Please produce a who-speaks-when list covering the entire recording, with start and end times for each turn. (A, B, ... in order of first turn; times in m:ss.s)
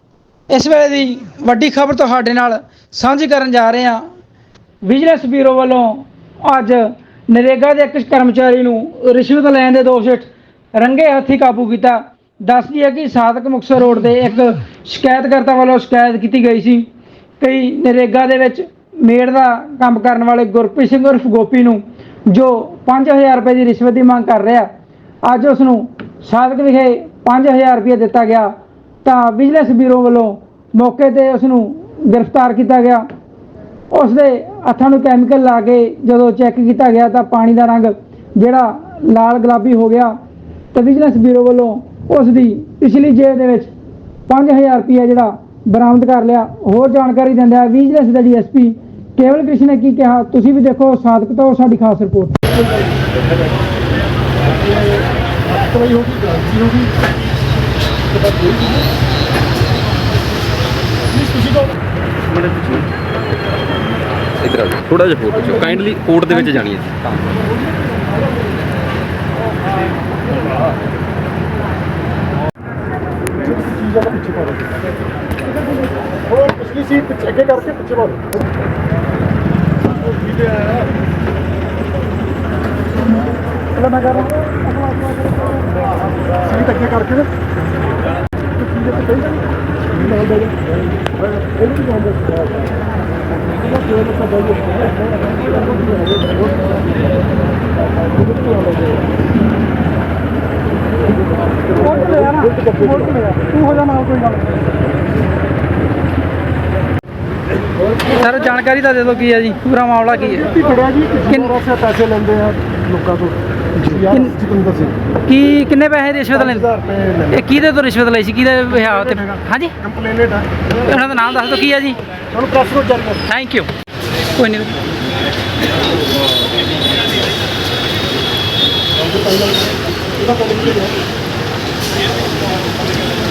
0:00.5-0:04.0 A
0:04.8-0:16.8 A
0:17.4-0:24.7 A
0:25.2-0:28.5 A
0:29.0-0:33.0 A
0:33.9-0:40.1 A
0:40.7-0:43.7 A
0:44.3-0:52.4 A
0:54.6-0:56.9 B
0:58.1-0:58.8 B
1:01.2-1:01.7 B
1:02.3-1:02.9 C
1:04.4-1:07.2 C
1:13.4-1:14.7 B
1:16.3-1:18.3 B
1:23.9-1:24.4 A
1:26.5-1:27.3 B
1:28.7-1:29.3 B
1:30.0-1:30.5 B
1:41.8-1:44.5 A
1:41.9-1:43.2 B
1:48.1-1:50.6 A
1:50.2-1:55.0 B
1:51.3-1:51.6 A
1:53.9-1:54.4 A
1:55.3-1:56.7 A
1:56.4-1:57.4 B
1:57.3-1:59.7 A
1:58.8-2:00.6 B
2:00.7-2:02.0 A
2:02.3-2:03.2 B
2:03.3-2:03.7 A
2:04.4-2:04.8 A
2:09.2-2:09.6 B
2:10.2-2:10.9 B